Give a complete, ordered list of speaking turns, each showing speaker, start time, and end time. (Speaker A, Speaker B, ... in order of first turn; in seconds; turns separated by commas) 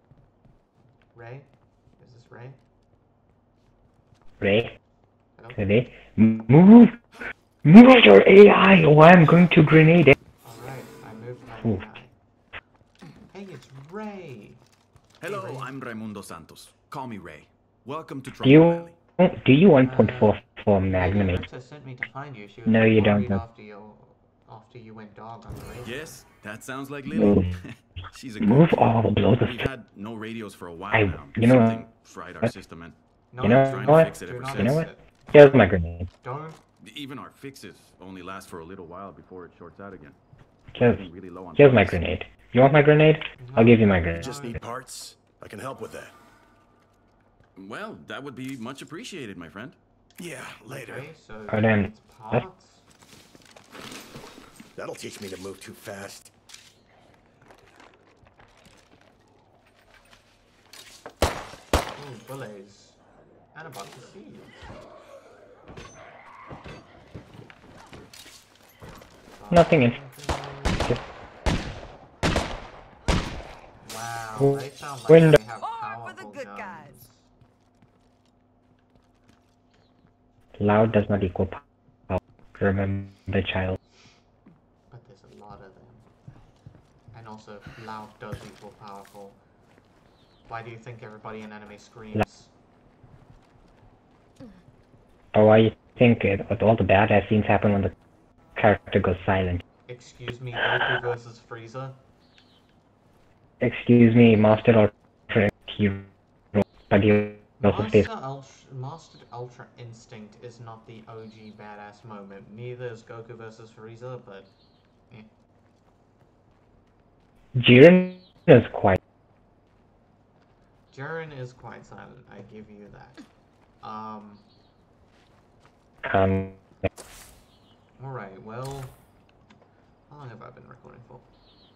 Speaker A: 1.1-2.6, Speaker B: 4.4-4.8, Speaker A: 5.4-5.6, Speaker B: 5.6-7.0, Speaker B: 7.6-10.2, Speaker A: 10.4-12.1, Speaker A: 13.3-14.6, Speaker C: 15.2-19.0, Speaker A: 15.2-15.7, Speaker B: 18.4-21.5, Speaker A: 19.8-20.4, Speaker A: 20.9-26.2, Speaker B: 22.7-23.4, Speaker C: 25.8-34.9, Speaker B: 27.1-27.6, Speaker B: 28.4-29.6, Speaker B: 30.9-31.9, Speaker A: 33.3-35.1, Speaker B: 33.4-36.1, Speaker A: 36.2-36.6, Speaker C: 36.8-40.2, Speaker B: 40.7-41.0, Speaker C: 40.8-42.0, Speaker B: 41.6-44.3, Speaker A: 43.4-44.6, Speaker D: 44.2-46.1, Speaker C: 47.6-49.8, Speaker D: 50.2-51.1, Speaker A: 50.6-52.9, Speaker B: 51.5-52.4, Speaker D: 54.8-56.3, Speaker A: 62.0-63.0, Speaker A: 63.5-64.7, Speaker A: 69.4-70.9, Speaker B: 69.5-70.0, Speaker A: 73.8-77.3, Speaker B: 75.1-75.4, Speaker B: 80.6-83.8, Speaker A: 84.9-86.3, Speaker A: 87.1-89.4, Speaker A: 90.5-92.5, Speaker B: 95.3-97.9, Speaker B: 98.6-99.6, Speaker A: 99.9-102.0, Speaker B: 103.6-108.1, Speaker A: 107.6-114.5, Speaker B: 117.6-119.0, Speaker A: 120.9-123.2, Speaker A: 123.8-124.5, Speaker B: 126.0-126.6, Speaker A: 128.0-129.0, Speaker A: 130.1-131.3